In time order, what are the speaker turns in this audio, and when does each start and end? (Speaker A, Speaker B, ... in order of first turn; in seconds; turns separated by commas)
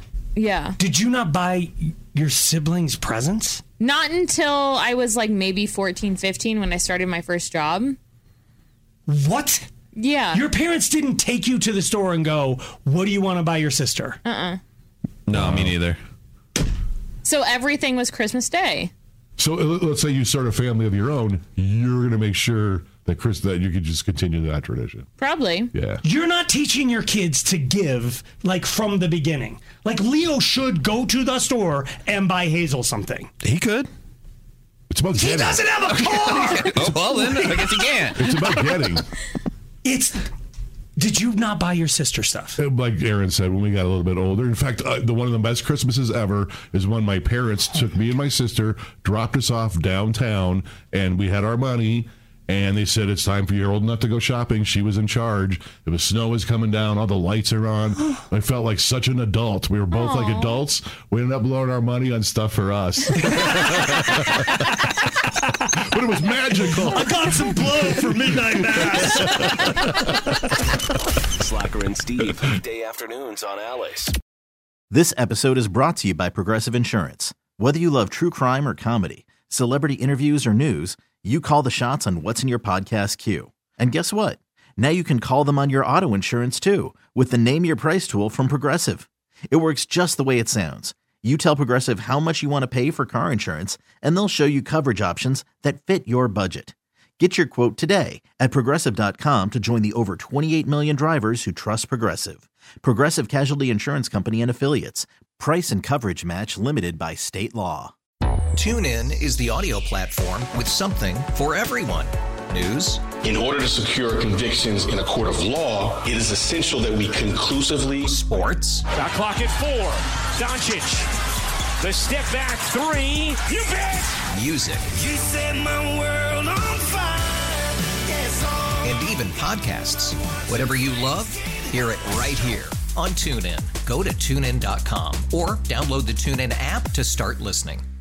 Speaker A: 0.3-0.8, Speaker B: 0.8-3.6, Speaker A: 3.8-8.0, Speaker B: 9.1-9.7, Speaker A: 9.9-10.4, Speaker B: 10.3-14.2, Speaker A: 14.2-14.6, Speaker C: 15.3-16.0, Speaker D: 15.3-15.8, Speaker A: 17.2-18.9, Speaker D: 19.4-25.1, Speaker A: 25.2-25.7, Speaker D: 25.7-26.0, Speaker B: 26.0-33.3, Speaker C: 33.4-33.9, Speaker D: 34.9-35.7, Speaker B: 35.1-38.1, Speaker C: 35.9-38.3, Speaker D: 38.1-39.0, Speaker B: 39.8-40.2, Speaker B: 41.0-42.6, Speaker D: 42.6-64.7, Speaker A: 59.9-60.6, Speaker B: 64.0-64.4, Speaker D: 65.8-70.5, Speaker B: 66.7-69.6, Speaker E: 71.5-74.1, Speaker D: 72.2-72.5, Speaker F: 74.9-107.9, Speaker G: 108.5-113.0, Speaker H: 113.2-118.2, Speaker G: 118.1-118.8, Speaker I: 118.9-121.1, Speaker I: 121.8-124.2, Speaker G: 124.3-125.0, Speaker J: 125.2-127.4, Speaker J: 128.2-128.6, Speaker G: 128.8-137.8